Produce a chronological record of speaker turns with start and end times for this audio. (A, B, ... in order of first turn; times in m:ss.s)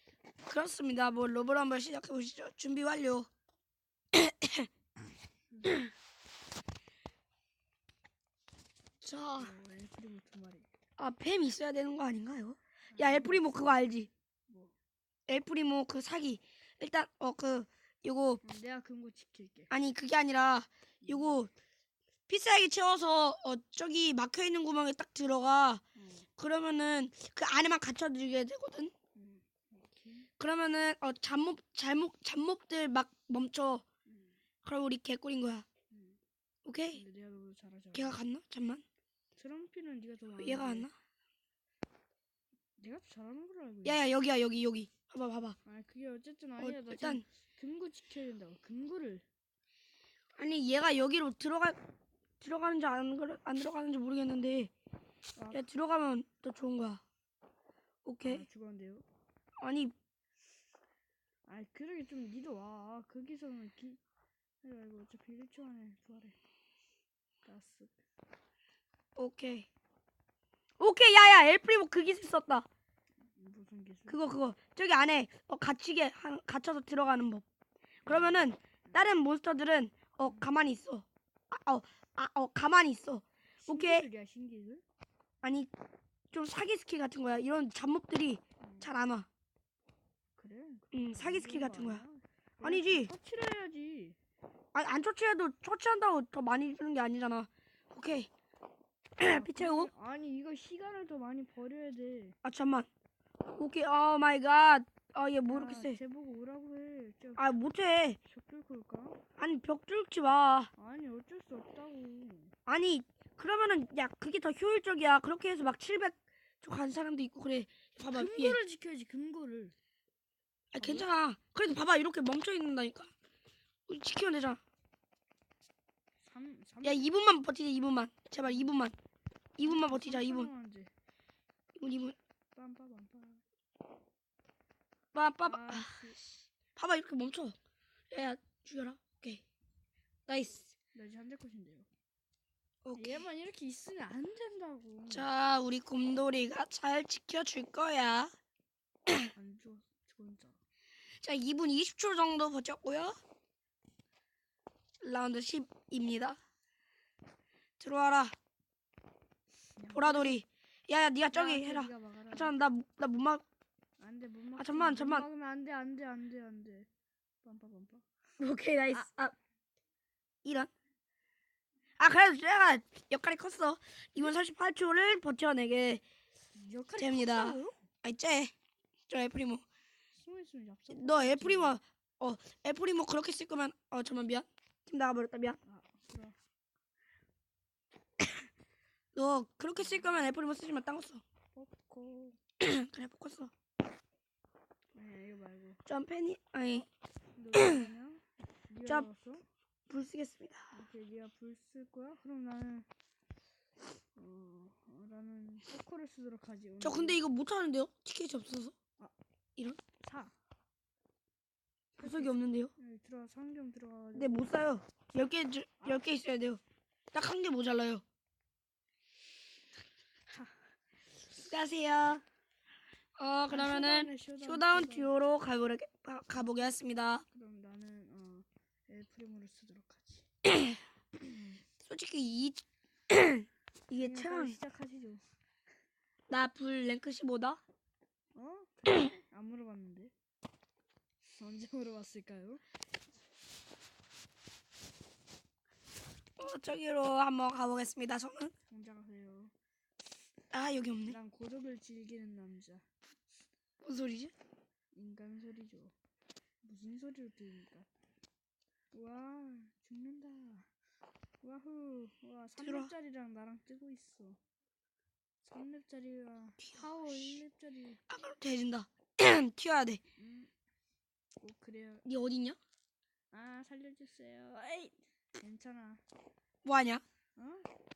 0:00.5-0:03.3 A
0:04.1-0:04.7 A
0:09.0-0:09.5 A
0:09.4-0:10.7 B
0:11.0-0:14.1 A
0:12.9-0:13.7 B
0:14.5-0:14.7 B
0:15.3-0:18.4 A
0:18.4-0:19.7 B
0:19.7-0:21.5 A
0:21.0-0:21.4 B
0:22.3-0:25.8 A
0:26.0-0:26.3 B
0:26.4-0:28.9 A
0:29.2-0:30.3 B
0:30.4-0:33.8 A
0:34.1-0:34.3 B
0:34.6-0:35.6 A
0:35.9-0:36.2 B
0:36.6-0:37.0 A
0:36.9-0:38.2 B
0:37.9-0:38.8 A
0:39.4-0:40.9 B
0:40.4-0:40.9 A
0:42.8-0:44.0 B
0:43.8-0:45.6 A
0:45.6-0:49.2 B
0:46.6-0:47.2 A
0:50.4-0:51.8 A
0:52.4-0:54.7 A
0:55.4-0:55.6 B
0:55.5-0:57.0 A
0:58.0-0:58.4 A
0:58.2-0:59.0 B
0:59.6-0:59.9 A
1:01.5-1:04.0 B
1:04.6-1:06.4 B
1:07.4-1:07.9 B
1:09.2-1:09.7 A
1:10.8-1:12.6 A
1:13.4-1:14.2 B
1:14.1-1:17.4 A
1:18.0-1:24.0 A
1:18.1-1:19.0 B
1:23.6-1:24.8 B
1:25.4-1:25.7 A
1:26.3-1:29.3 A
1:28.6-1:28.9 B
1:30.4-1:34.2 B
1:30.9-1:32.0 A
1:32.6-1:33.1 A
1:34.7-1:38.3 A
1:39.2-1:39.9 A
1:39.3-1:42.4 B
1:42.4-1:42.9 A
1:43.5-1:46.0 A
1:45.4-1:47.5 B
1:47.4-1:48.2 A
1:48.3-1:49.2 B
1:49.4-1:50.7 A
1:50.8-1:52.5 B
1:52.6-1:58.6 A
1:58.1-1:59.7 B
2:00.7-2:03.1 A
2:00.8-2:01.1 B
2:03.9-2:04.6 A
2:06.2-2:07.1 B
2:06.8-2:08.9 A
2:09.6-2:10.5 A
2:09.6-2:10.9 B
2:11.8-2:12.2 A
2:12.5-2:13.4 B
2:15.1-2:15.9 A
2:15.4-2:16.2 B
2:16.8-2:17.6 A
2:18.1-2:19.4 A
2:20.3-2:20.7 A
2:20.9-2:21.9 B
2:22.8-2:23.2 A
2:23.0-2:25.3 B
2:25.1-2:28.3 A
2:29.3-2:30.6 B
2:31.2-2:33.2 A
2:35.0-2:36.4 A
2:37.8-2:38.3 A
2:39.8-2:40.4 B
2:39.9-2:43.4 A
2:41.3-2:42.6 B
2:44.0-2:46.9 B
2:44.6-2:45.2 A
2:47.4-2:48.0 B
2:48.4-2:49.3 A
2:50.4-2:50.7 A
2:52.0-2:56.0 A
2:56.6-2:57.8 B
2:57.0-2:58.5 A
2:59.1-2:59.6 A
3:00.1-3:01.8 B
3:00.9-3:05.6 A
3:05.6-3:06.3 B
3:09.1-3:11.2 A
3:09.8-3:10.3 B
3:11.5-3:12.4 B
3:12.6-3:13.5 A
3:14.9-3:15.8 B
3:15.8-3:16.8 A
3:16.7-3:19.4 B
3:17.5-3:17.8 A
3:19.9-3:20.7 A
3:20.7-3:22.8 B
3:24.2-3:27.2 B
3:26.8-3:28.7 A
3:30.0-3:30.3 B
3:32.0-3:34.5 B
3:32.0-3:32.7 A
3:34.1-3:36.6 A
3:37.1-3:38.0 A
3:40.3-3:40.6 B
3:41.5-3:42.2 A
3:43.2-3:47.2 A
3:43.5-3:45.1 B
3:47.3-3:50.3 B
3:50.4-3:50.7 A
3:51.2-3:51.6 B
3:51.8-3:54.6 A
3:54.0-3:55.2 B
3:56.3-3:57.6 A
3:58.3-4:00.1 B
4:01.4-4:02.6 B
4:06.4-4:08.5 A
4:08.7-4:09.5 B
4:10.5-4:11.2 A
4:11.0-4:12.8 B
4:13.8-4:14.3 A
4:14.9-4:15.9 B
4:16.6-4:17.9 B
4:18.9-4:20.7 B
4:21.4-4:24.4 B
4:22.6-4:22.9 A
4:25.4-4:28.0 B
4:28.1-4:30.0 A
4:30.2-4:30.5 B
4:31.4-4:32.0 B
4:32.0-4:32.6 A
4:33.3-4:36.0 B
4:36.6-4:37.0 A
4:37.4-4:37.7 B